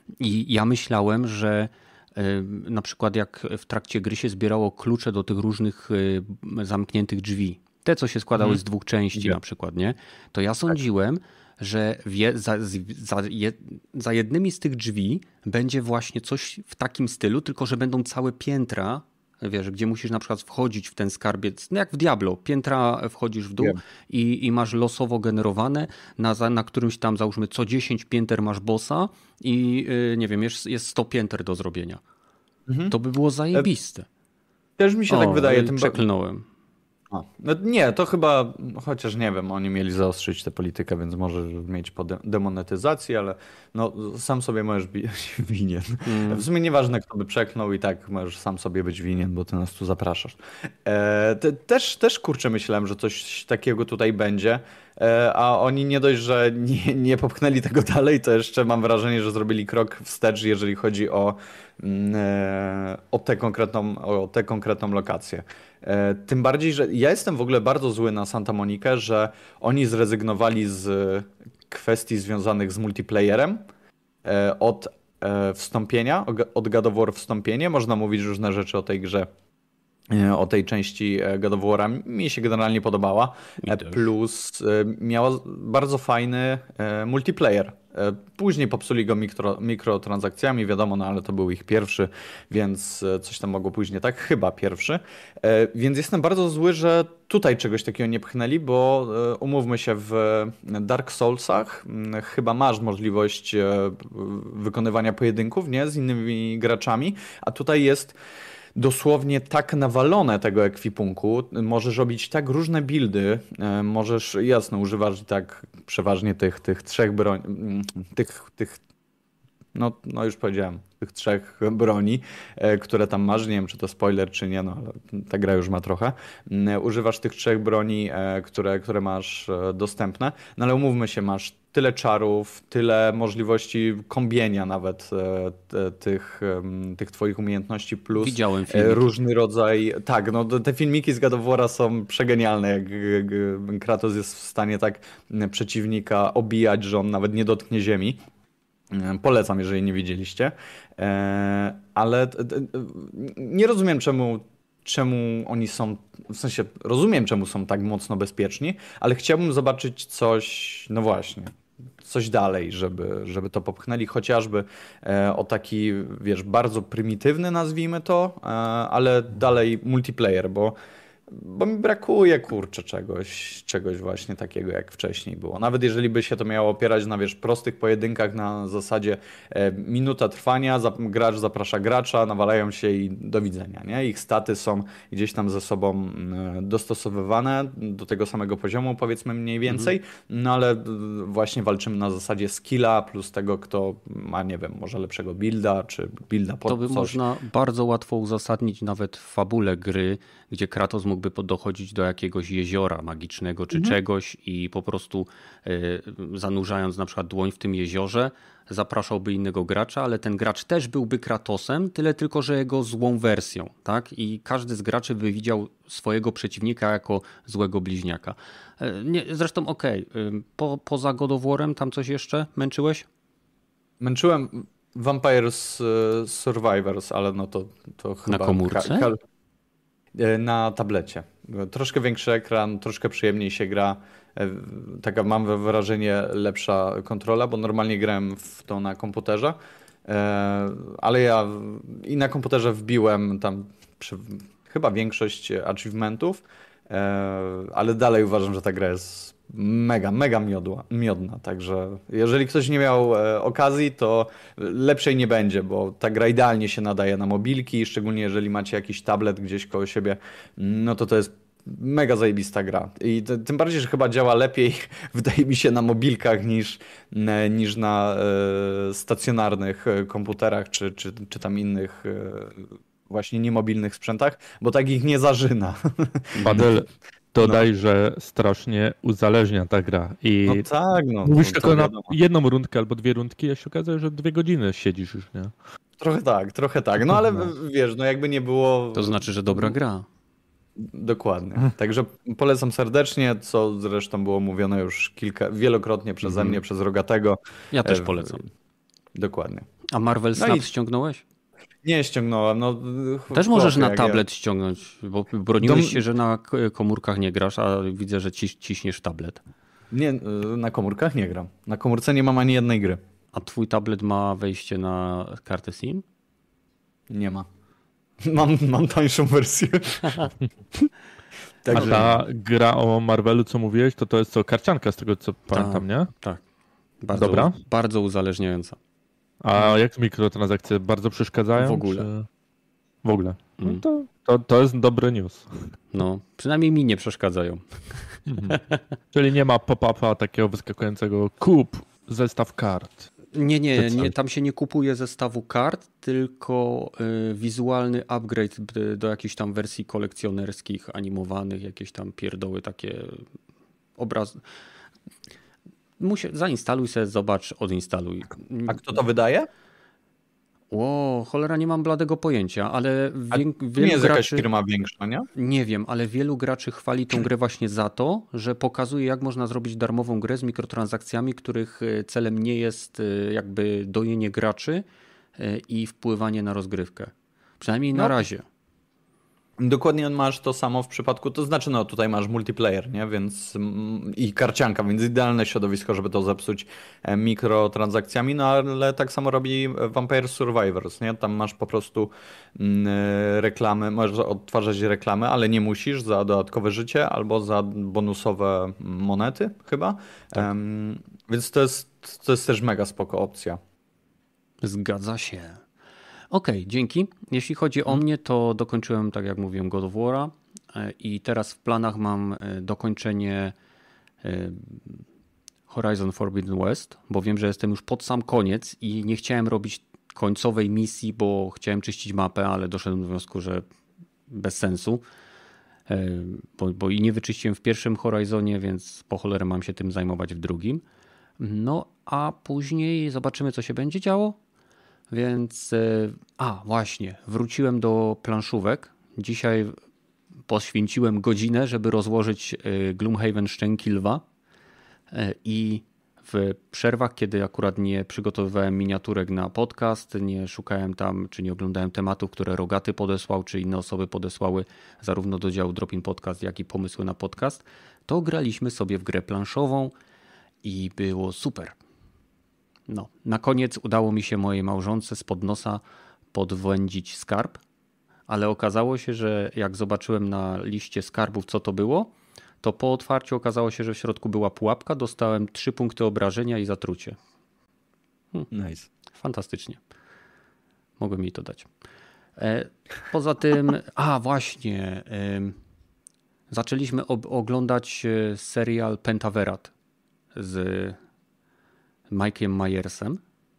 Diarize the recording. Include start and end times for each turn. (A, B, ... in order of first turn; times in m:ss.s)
0:00.2-0:32.0 A
0:09.1-0:09.4 B
0:32.7-0:32.9 B
0:32.9-0:34.1 A
0:34.8-0:36.0 B
0:35.1-0:36.5 A
0:37.1-1:13.7 B
0:46.1-0:46.5 A
1:14.2-1:19.3 B
1:20.1-1:48.2 B
1:23.6-1:24.0 A
1:48.8-1:58.8 B
1:59.8-2:28.2 B
2:18.2-2:19.1 A
2:28.9-2:50.8 B
2:51.3-3:17.2 B
3:09.7-3:09.9 A
3:16.7-3:43.1 A
3:44.0-3:49.2 B
3:48.3-3:49.1 A
3:50.2-4:36.6 B
4:36.4-4:36.7 A
4:36.5-4:40.7 C
4:40.5-4:42.1 B
4:41.2-4:45.5 C
4:46.0-4:49.8 B
4:48.9-4:50.1 A
4:50.8-4:58.5 B
4:56.3-4:56.6 A
4:57.7-4:58.4 A
4:59.2-4:59.7 B
4:59.9-5:01.2 A
5:00.4-5:00.7 B
5:01.8-5:04.2 B
5:03.3-5:09.4 A
5:05.6-5:06.0 B
5:09.9-5:13.0 B
5:13.3-5:16.0 A
5:17.1-5:17.5 B
5:18.2-5:20.9 B
5:21.6-5:22.2 B
5:21.7-5:22.1 A
5:21.7-5:26.1 C
5:25.5-5:26.4 A
5:27.0-5:28.8 A
5:27.2-5:27.5 C
5:29.4-5:32.3 C
5:31.6-5:32.1 A
5:33.0-5:35.5 C
5:35.9-5:38.8 A
5:38.3-5:38.6 C
5:39.1-5:43.1 C
5:43.3-5:53.2 A
5:43.8-5:44.2 C
5:54.0-5:54.4 A
5:56.0-5:58.8 A
5:58.7-5:59.5 B
6:00.7-6:04.5 A
6:03.3-6:05.3 B
6:05.4-6:14.8 A
6:15.4-6:18.4 A
6:19.6-6:43.6 B
6:44.6-6:45.6 A
6:46.3-6:53.5 A
6:54.2-6:55.0 A
6:55.7-7:03.6 A
7:04.3-7:05.0 A
7:05.9-7:10.8 A
7:11.4-7:14.4 A
7:15.1-7:19.8 A
7:20.5-7:24.2 A
7:25.1-7:39.9 A
7:40.6-7:41.8 A
7:42.9-7:45.8 A
7:46.3-7:47.6 A
7:48.3-7:57.2 A
7:58.5-7:58.9 B
7:59.1-7:59.8 A
8:01.0-8:01.7 A
8:02.4-8:05.6 A
8:06.5-8:09.7 A
8:10.4-8:11.0 A
8:12.1-8:13.2 A